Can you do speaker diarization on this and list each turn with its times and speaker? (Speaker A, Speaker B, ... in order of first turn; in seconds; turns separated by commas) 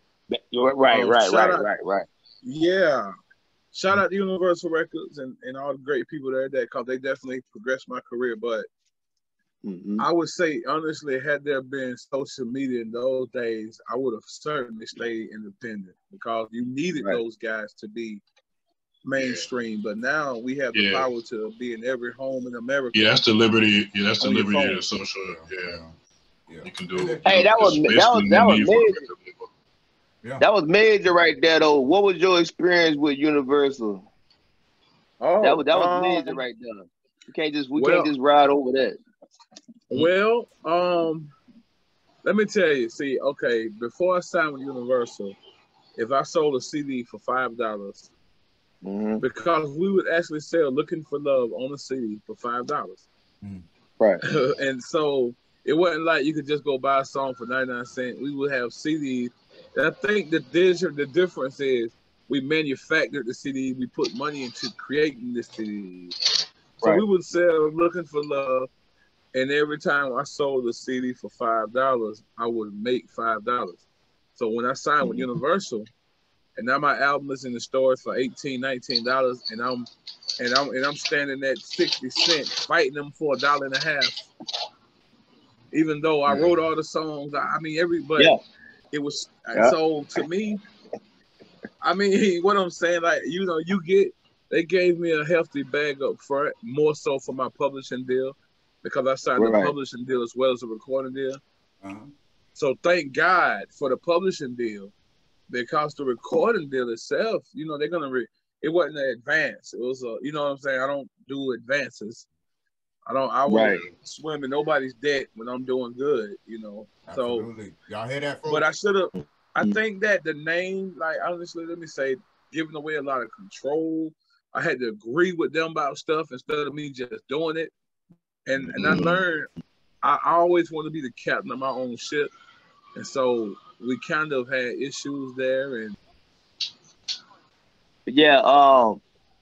Speaker A: 0.3-2.1, Speaker B: 0.9-1.7, Speaker B: 2.4-3.1, Speaker B: 3.7-8.7, Speaker A: 9.6-10.1, Speaker B: 10.0-18.2, Speaker B: 19.0-23.1, Speaker C: 19.2-19.5, Speaker C: 20.7-21.1, Speaker C: 22.9-25.8, Speaker B: 24.2-24.8, Speaker D: 25.3-25.9, Speaker D: 26.5-27.2, Speaker C: 26.6-29.5, Speaker A: 27.2-29.0, Speaker A: 30.4-34.1, Speaker B: 35.2-36.4, Speaker A: 35.4-39.0, Speaker B: 37.8-38.1, Speaker B: 39.9-41.3, Speaker B: 42.2-45.4, Speaker B: 46.0-48.1, Speaker A: 48.8-49.2, Speaker B: 49.2-53.1, Speaker B: 54.2-66.2, Speaker B: 66.8-68.7, Speaker B: 69.3-73.8, Speaker B: 74.4-75.9, Speaker B: 76.6-84.3, Speaker B: 85.7-88.3, Speaker B: 88.9-90.6, Speaker B: 91.8-101.4, Speaker A: 99.4-99.7, Speaker D: 101.8-102.1, Speaker B: 102.5-104.9, Speaker B: 105.5-112.3, Speaker B: 113.1-117.5, Speaker A: 113.5-113.8, Speaker D: 117.1-118.7, Speaker B: 118.5-127.7, Speaker A: 119.2-119.8, Speaker B: 128.5-129.5, Speaker C: 128.8-129.2, Speaker B: 130.0-132.3, Speaker B: 132.9-136.0, Speaker A: 138.1-139.0